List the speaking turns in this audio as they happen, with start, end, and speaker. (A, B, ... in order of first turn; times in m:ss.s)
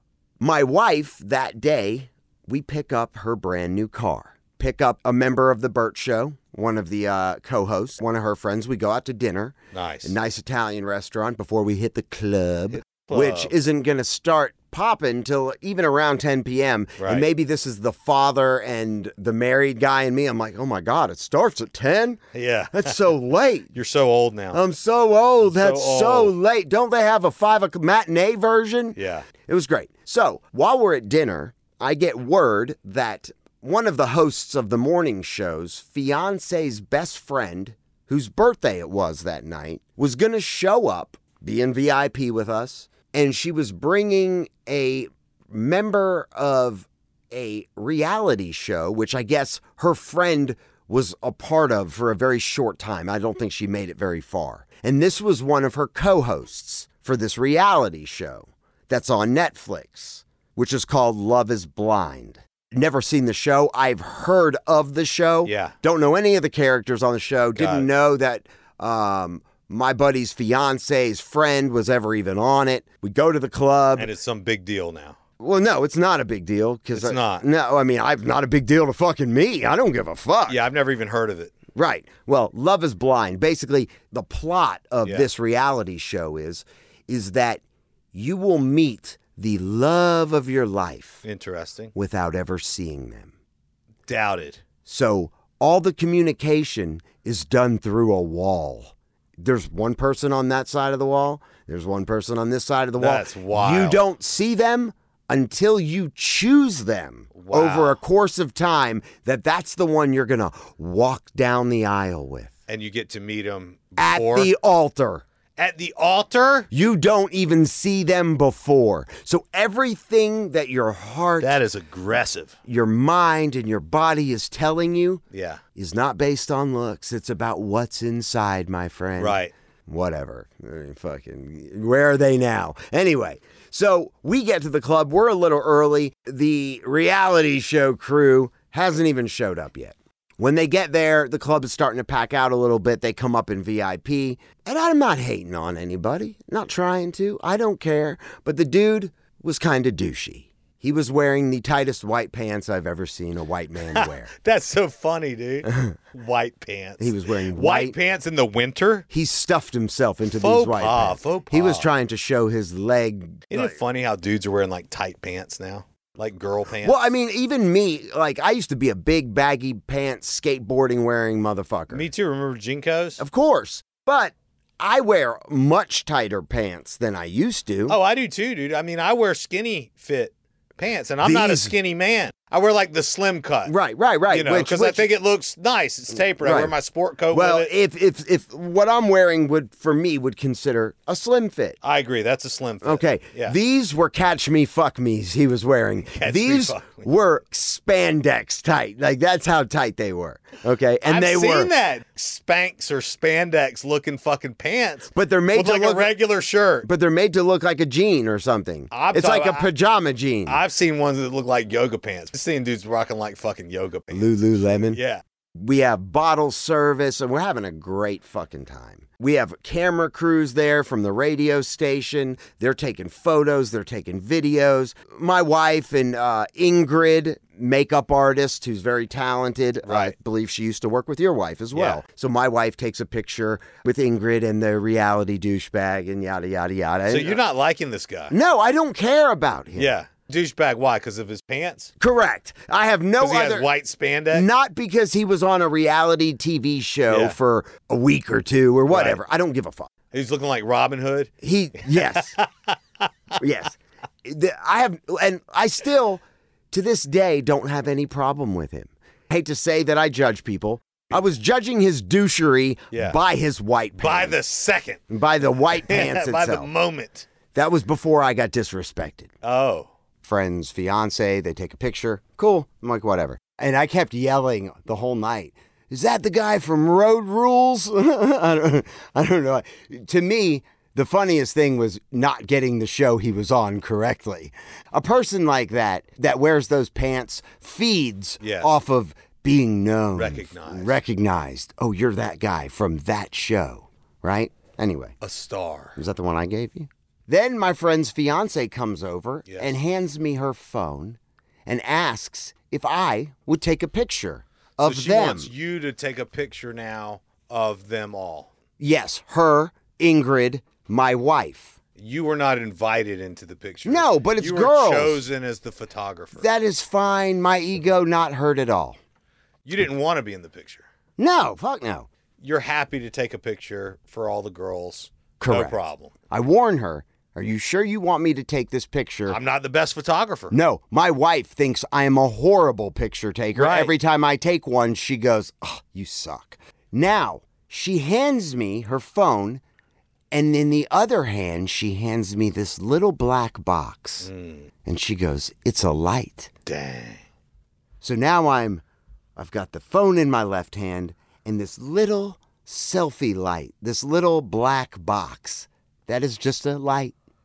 0:00.4-0:23.7 A
0:09.7-0:10.2 B
0:12.7-0:13.5 B
0:17.0-0:17.3 B
0:22.3-0:23.1 B
0:23.7-0:24.6 B
0:24.5-1:14.1 A
0:25.4-0:26.3 B
0:29.0-0:29.3 B
1:05.4-1:05.8 B
1:07.6-1:07.9 B
1:14.0-1:15.2 B
1:15.4-1:20.6 A
1:16.9-1:17.4 B
1:20.5-1:21.5 B
1:21.8-1:27.6 A
1:28.1-1:31.2 A
1:31.2-1:31.9 B
1:31.9-1:33.3 A
1:34.1-1:34.6 B
1:34.8-1:52.5 A
1:43.0-1:44.0 B
1:47.3-1:48.0 B
1:52.7-1:54.5 B
1:54.0-1:55.2 A
1:55.6-1:56.7 B
1:56.7-2:01.6 A
2:01.4-2:02.6 B
2:02.7-2:05.2 A
2:05.3-2:05.6 B
2:05.8-2:34.3 A
2:09.2-2:09.5 B
2:33.9-2:39.1 B
2:35.7-2:35.9 A
2:37.0-2:38.0 A
2:39.1-2:43.8 A
2:40.3-2:41.9 B
2:43.5-2:47.0 B
2:46.8-2:52.1 A
2:51.9-2:53.2 B
2:53.2-2:58.0 A
2:57.9-3:03.8 B
3:01.2-3:01.8 A
3:03.7-3:05.1 A
3:04.3-3:07.7 B
3:06.4-3:06.8 A
3:07.3-3:11.8 A
3:11.8-3:13.6 B
3:12.8-3:21.7 A
3:16.1-3:17.1 B
3:21.0-3:26.9 B
3:25.1-3:26.2 A
3:26.8-3:30.6 A
3:28.9-3:29.7 B
3:30.5-3:35.2 B
3:34.1-3:35.0 A
3:35.6-3:57.4 A
3:49.9-3:50.2 B
3:51.7-3:52.0 B
3:57.1-3:58.3 B
3:58.3-4:00.0 A
3:59.8-4:01.9 B
4:02.0-4:03.7 A
4:03.2-4:04.5 B
4:04.3-4:09.9 A
4:07.1-4:07.4 B
4:08.9-4:09.2 B
4:10.1-4:11.3 B
4:11.4-4:12.4 A
4:11.9-4:13.0 B
4:13.4-4:24.4 A
4:22.9-4:23.2 B
4:24.0-4:25.1 B
4:25.1-4:26.7 A
4:25.7-4:27.3 B
4:27.5-4:29.3 A
4:29.4-4:29.9 B
4:30.2-4:55.2 A
4:48.4-4:48.7 B
4:50.2-4:51.0 B
4:55.2-4:56.0 B
4:56.0-5:05.5 A
4:59.5-4:59.8 B
5:04.8-5:08.5 B
5:08.8-5:11.8 A
5:12.0-5:16.5 B
5:13.8-5:15.2 A
5:16.4-5:19.0 A
5:19.6-5:20.8 B
5:21.2-5:22.1 A
5:22.4-5:26.1 B
5:25.4-5:25.8 A
5:26.3-5:29.4 A
5:29.3-5:30.6 B
5:30.5-5:39.6 A
5:33.5-5:33.9 B
5:40.3-5:44.3 A
5:44.2-5:44.7 B
5:44.8-5:46.5 A
5:46.7-5:47.2 B
5:48.0-5:48.8 A
5:49.4-5:57.1 A